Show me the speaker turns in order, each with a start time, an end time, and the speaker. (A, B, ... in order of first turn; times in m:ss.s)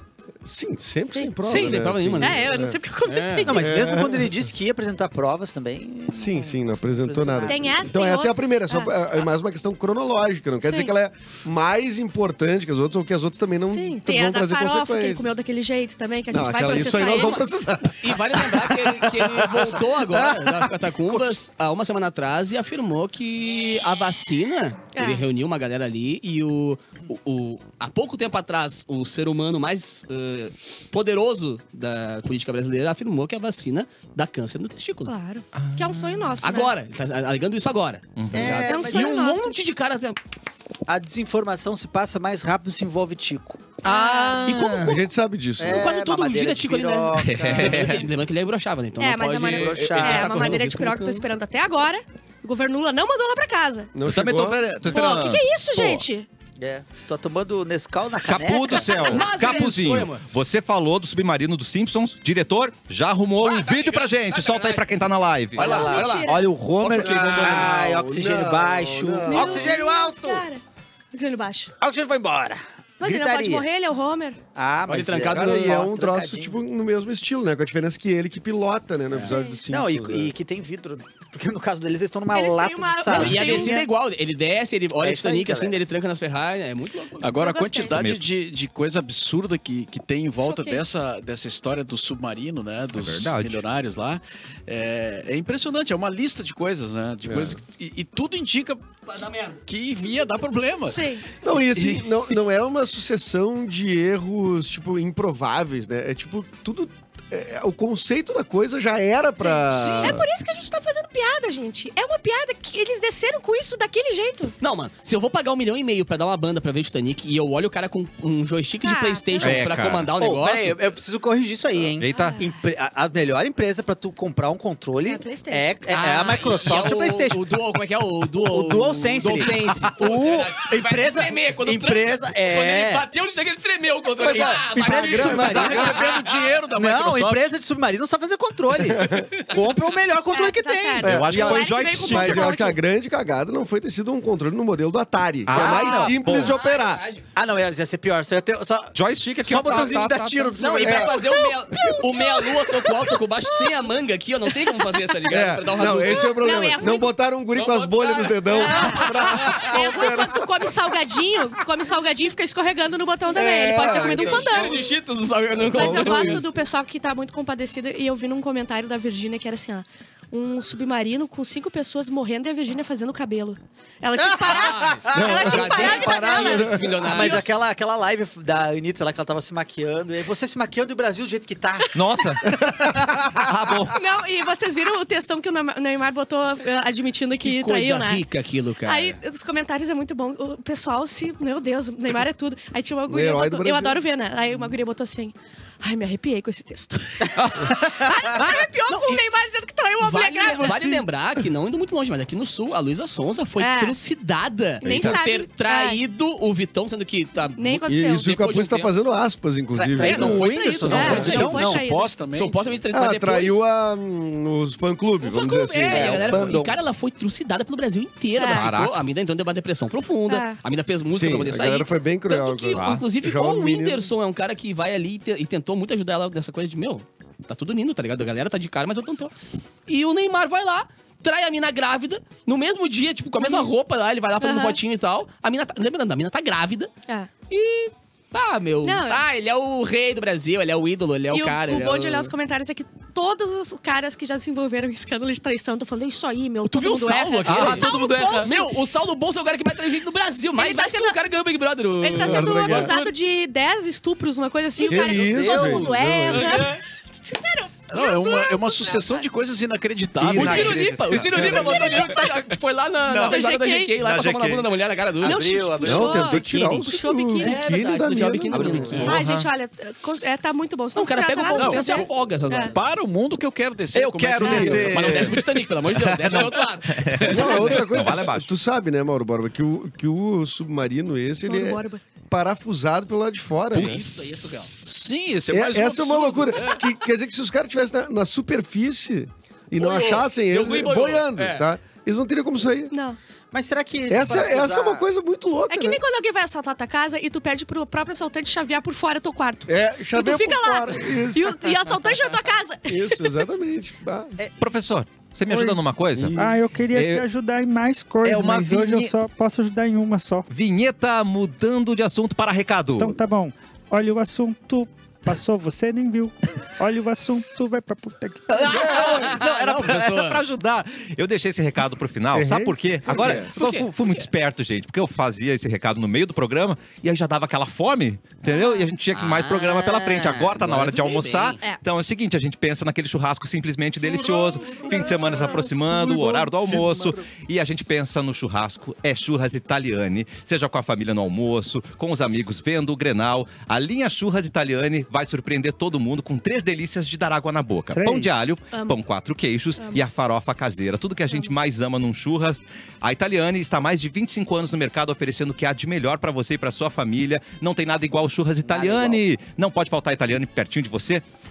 0:00.4-0:02.8 A
0:01.1-0:03.8 B
0:01.3-0:02.5 C
0:03.0-0:03.7 C
0:03.4-0:07.8 D
0:03.5-0:04.3 A
0:06.1-0:15.4 A
0:07.5-0:08.9 B
0:10.6-0:10.9 B
0:13.7-0:17.4 B
0:16.3-0:20.6 A
0:16.7-0:17.4 C
0:18.0-0:35.1 C
0:24.9-0:25.2 B
0:35.0-0:36.7 B
0:35.6-0:36.4 E
0:36.4-0:40.2 C
0:38.2-0:38.6 E
0:38.3-0:39.2 D
0:38.6-0:39.5 B
0:40.9-0:43.7 D
0:43.8-0:44.6 B
0:43.8-0:45.0 E
0:44.5-0:44.8 C
0:44.8-0:45.9 A
0:45.6-0:48.1 D
0:45.7-0:51.2 C
0:47.2-0:48.0 E
0:49.0-0:53.9 B
0:49.5-0:50.5 D
0:53.9-0:54.8 A
0:54.0-0:56.0 E
0:54.9-0:56.3 B
0:56.6-0:59.2 D
0:58.2-1:05.7 E
0:58.7-0:59.3 B
0:59.0-1:00.2 C
1:03.4-1:05.0 C
1:05.6-1:07.8 C
1:05.6-1:06.4 B
1:05.6-1:10.4 D
1:07.0-1:09.7 A
1:09.2-1:10.6 B
1:11.1-1:11.7 B
1:11.8-1:13.6 D
1:13.0-1:14.4 B
1:14.6-1:16.6 D
1:14.9-1:15.9 C
1:15.3-1:20.3 A
1:19.2-1:19.6 B
1:19.7-1:23.8 D
1:22.3-1:23.9 B
1:23.1-1:27.4 C
1:25.0-1:25.8 D
1:27.2-1:38.8 F
1:27.3-1:28.0 B
1:27.9-1:28.2 E
1:30.4-1:30.8 B
1:32.9-1:33.6 E
1:37.2-1:37.6 A
1:39.1-1:39.6 C
1:39.7-1:41.1 F
1:40.9-1:41.2 B
1:41.4-1:50.2 A
1:41.7-1:42.1 F
1:49.4-1:54.5 B
1:54.6-2:00.8 C
1:58.8-1:59.6 B
1:59.4-2:00.1 E
2:00.2-2:07.6 D
2:02.0-2:02.4 E
2:02.1-2:02.5 B
2:05.0-2:05.8 B
2:05.9-2:16.3 C
2:08.3-2:13.1 D
2:14.2-2:16.3 A
2:14.2-2:21.2 D
2:15.0-2:17.5 F
2:15.4-2:15.9 E
2:18.9-2:19.3 A
2:20.3-2:22.8 B
2:21.0-2:27.0 A
2:21.1-2:22.6 E
2:25.5-2:26.6 E
2:25.5-2:26.2 D
2:26.5-2:26.8 B
2:26.5-2:27.2 C
2:27.3-2:31.3 D
2:28.9-2:30.6 E
2:30.6-2:36.7 C
2:30.8-2:32.4 A
2:31.4-2:32.7 B
2:35.3-2:40.4 A
2:35.9-2:37.1 B
2:37.5-2:39.8 C
2:38.5-2:44.9 B
2:43.3-2:44.8 A
2:43.7-2:46.5 C
2:45.7-2:57.4 B
2:45.7-2:46.5 A
2:54.2-3:02.0 D
2:54.4-2:57.5 C
2:55.1-2:57.4 A
3:01.9-3:04.0 E
3:02.5-3:03.2 A
3:03.9-3:08.2 B
3:07.4-3:09.2 C
3:08.8-3:20.9 B
3:13.1-3:14.0 A
3:17.4-3:17.9 E
3:18.9-3:19.2 C
3:20.0-3:28.9 C
3:20.5-3:21.0 A
3:23.6-3:24.0 B
3:24.8-3:26.0 B
3:24.8-3:25.2 E
3:27.6-3:28.3 B
3:27.9-3:30.5 A
3:29.8-3:31.8 D
3:29.8-3:31.8 C
3:30.6-3:32.1 B
3:31.0-3:31.4 A
3:31.5-3:32.7 F
3:32.3-3:33.6 C
3:32.9-3:36.7 A
3:35.2-3:49.3 C
3:35.9-3:36.6 D
3:38.3-3:38.7 B
3:38.4-3:39.0 E
3:40.3-3:40.6 B
3:41.1-3:44.1 A
3:42.7-3:43.0 E
3:49.9-3:56.9 C
3:53.4-3:53.7 B
3:54.4-3:54.8 B
3:57.5-4:02.3 C
3:58.8-3:59.2 B
4:01.3-4:08.7 B
4:06.6-4:13.1 C
4:07.4-4:08.5 E
4:10.6-4:11.2 B
4:12.0-4:19.2 B
4:12.2-4:12.9 A
4:14.8-4:16.7 A
4:14.9-4:15.9 D
4:16.3-4:16.8 F
4:17.9-4:20.7 F
4:20.2-4:22.2 E
4:20.2-4:25.8 C
4:20.4-4:22.4 B
4:23.0-4:23.4 E
4:23.2-4:24.0 B
4:24.0-4:24.7 E
4:25.2-4:26.7 D
4:25.2-4:27.6 B
4:25.8-4:29.1 A
4:27.4-4:29.2 C
4:28.5-4:29.5 E
4:29.0-4:32.7 B
4:30.9-4:32.8 C
4:31.6-4:32.0 F
4:32.7-4:35.0 F
4:33.9-4:35.4 E
4:34.4-4:37.8 C
4:34.4-4:35.3 A
4:35.9-4:38.5 E
4:37.3-4:44.0 A
4:41.4-4:42.0 B
4:43.8-4:45.1 C
4:43.8-4:44.0 F
4:44.8-4:46.6 F
4:45.5-4:52.9 A
4:49.8-4:51.7 C
4:52.9-4:53.2 B
4:53.5-4:55.0 D
4:54.1-4:56.0 A
4:55.7-5:03.4 B
4:59.7-5:01.6 A
5:02.9-5:04.3 A
5:04.6-5:06.4 E
5:05.5-5:05.8 G
5:06.2-5:06.6 A
5:06.4-5:10.4 G
5:06.9-5:07.2 E
5:08.2-5:09.1 E
5:10.5-5:13.2 E
5:13.0-5:18.6 G
5:18.5-6:01.2 E
5:18.6-5:19.3 A
5:18.6-5:20.4 C
5:22.3-5:23.5 A
5:23.1-5:24.3 C
5:28.5-5:28.9 B
5:29.1-5:31.7 C
5:34.3-5:35.7 B
5:47.9-5:48.5 G
5:48.7-5:49.0 B
5:58.6-5:59.2 D